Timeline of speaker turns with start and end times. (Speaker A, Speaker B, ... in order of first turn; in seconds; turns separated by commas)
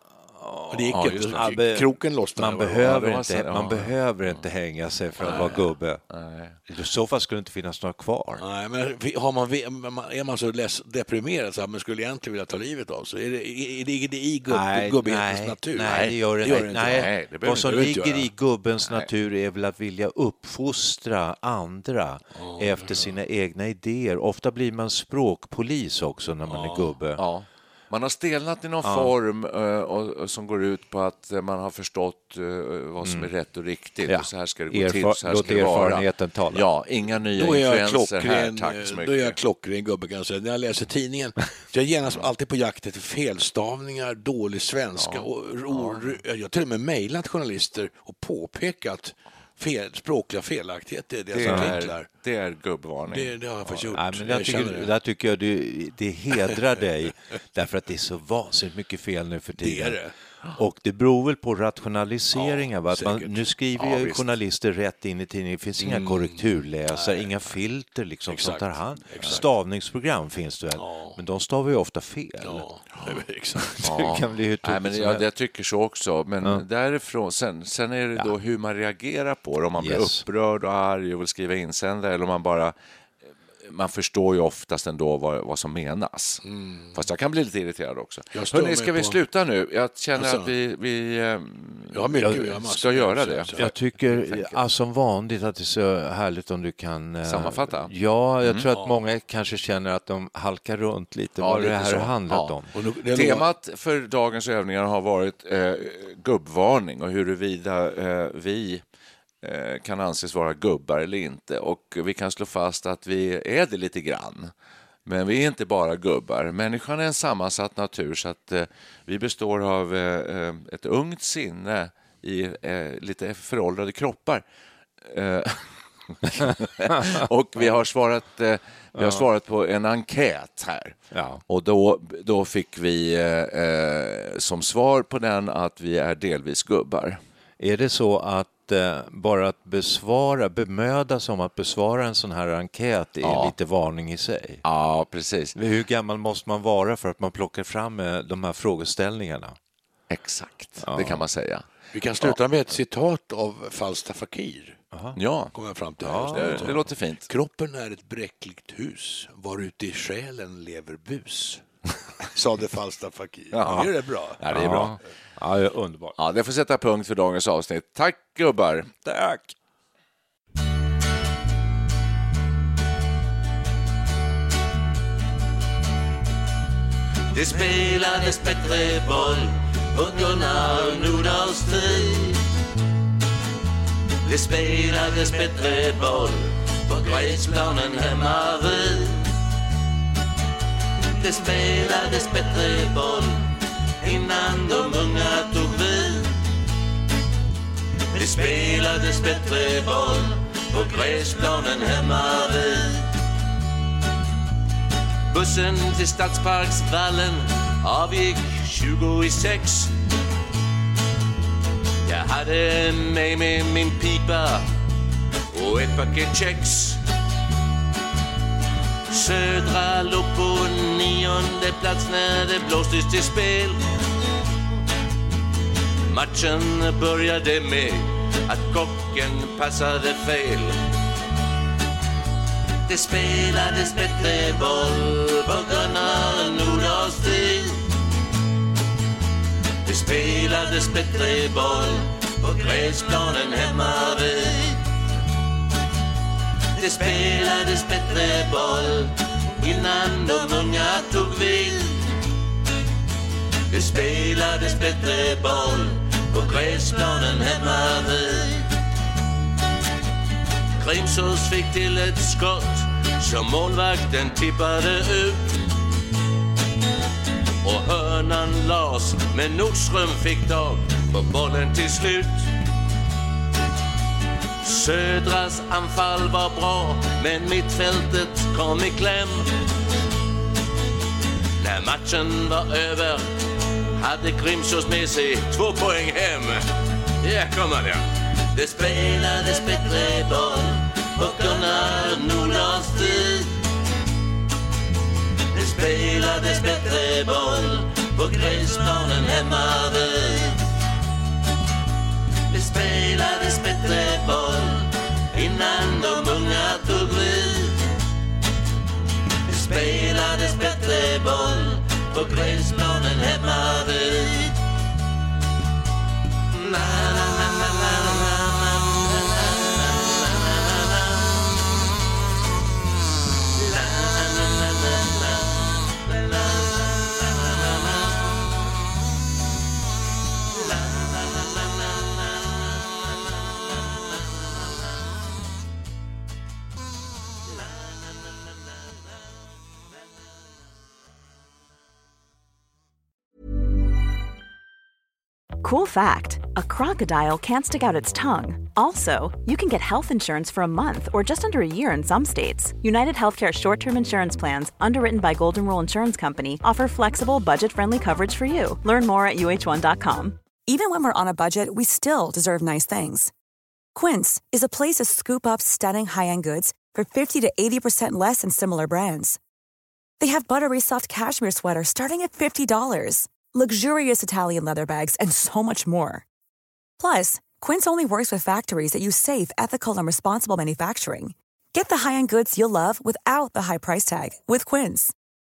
Speaker A: 0.4-6.0, Speaker B: 0.7-3.0, Speaker C: 0.9-1.6, Speaker C: 2.8-4.4, Speaker C: 5.2-6.6, Speaker B: 5.2-5.6, Speaker A: 6.7-8.4, Speaker B: 8.4-18.3, Speaker A: 14.5-27.2, Speaker C: 15.8-17.9, Speaker B: 22.4-23.1, Speaker C: 26.5-39.4, Speaker A: 28.8-29.1, Speaker A: 33.0-33.3, Speaker A: 34.1-36.6, Speaker B: 35.4-35.9, Speaker B: 37.2-52.1, Speaker C: 45.0-46.2, Speaker C: 51.3-53.9, Speaker A: 51.5-51.8, Speaker B: 53.1-54.9, Speaker A: 53.9-60.0, Speaker B: 59.6-60.1, Speaker A: 60.6-72.7, Speaker B: 62.4-63.4, Speaker C: 63.8-64.2, Speaker B: 65.8-67.3, Speaker B: 68.3-69.5, Speaker B: 70.8-71.2, Speaker B: 72.4-74.2, Speaker A: 73.8-75.2, Speaker C: 73.8-82.8, Speaker A: 79.8-80.2, Speaker C: 83.6-86.4, Speaker B: 86.4-87.0, Speaker C: 86.9-93.7, Speaker B: 88.3-89.2, Speaker B: 90.2-90.5, Speaker B: 91.9-93.8, Speaker A: 92.2-92.5, Speaker A: 93.6-102.7, Speaker C: 94.3-94.6, Speaker C: 97.3-98.7, Speaker B: 98.7-99.0, Speaker C: 101.4-102.6, Speaker B: 102.7-103.5, Speaker C: 103.1-108.8, Speaker C: 109.4-114.5, Speaker C: 115.1-124.4, Speaker C: 125.0-131.0, Speaker A: 126.9-127.3, Speaker A: 129.0-129.2, Speaker A: 131.1-131.4, Speaker C: 131.5-137.2, Speaker A: 137.6-144.6, Speaker C: 143.2-143.5, Speaker C: 144.6-145.6, Speaker A: 145.6-149.6, Speaker C: 150.1-151.7, Speaker A: 150.8-151.2, Speaker B: 151.9-154.8, Speaker A: 154.9-155.2, Speaker C: 155.2-155.5, Speaker B: 155.5-161.6, Speaker A: 156.0-156.8, Speaker C: 156.3-157.3, Speaker B: 162.3-164.9, Speaker C: 163.5-165.0, Speaker A: 164.5-166.2, Speaker C: 166.2-168.9, Speaker A: 169.0-169.5, Speaker D: 177.3-182.4, Speaker D: 184.2-189.3, Speaker D: 191.2-196.4, Speaker D: 198.1-203.1, Speaker D: 205.3-209.9, Speaker D: 212.0-214.7, Speaker D: 215.5-217.0, Speaker D: 219.1-223.8, Speaker D: 226.1-230.8, Speaker D: 232.9-237.8, Speaker D: 239.8-244.8, Speaker D: 246.8-252.1, Speaker D: 253.7-258.7, Speaker D: 260.8-265.7, Speaker D: 267.6-272.5, Speaker D: 274.6-279.5, Speaker D: 281.6-283.2, Speaker D: 283.9-286.7, Speaker D: 287.2-293.6, Speaker D: 295.5-300.6, Speaker D: 302.5-307.9, Speaker D: 309.5-314.6, Speaker D: 316.6-321.4, Speaker D: 323.6-327.9, Speaker D: 330.6-332.4, Speaker E: 345.6-360.4, Speaker F: 360.6-363.3, Speaker F: 363.9-369.4, Speaker F: 370.2-376.2, Speaker F: 377.0-385.1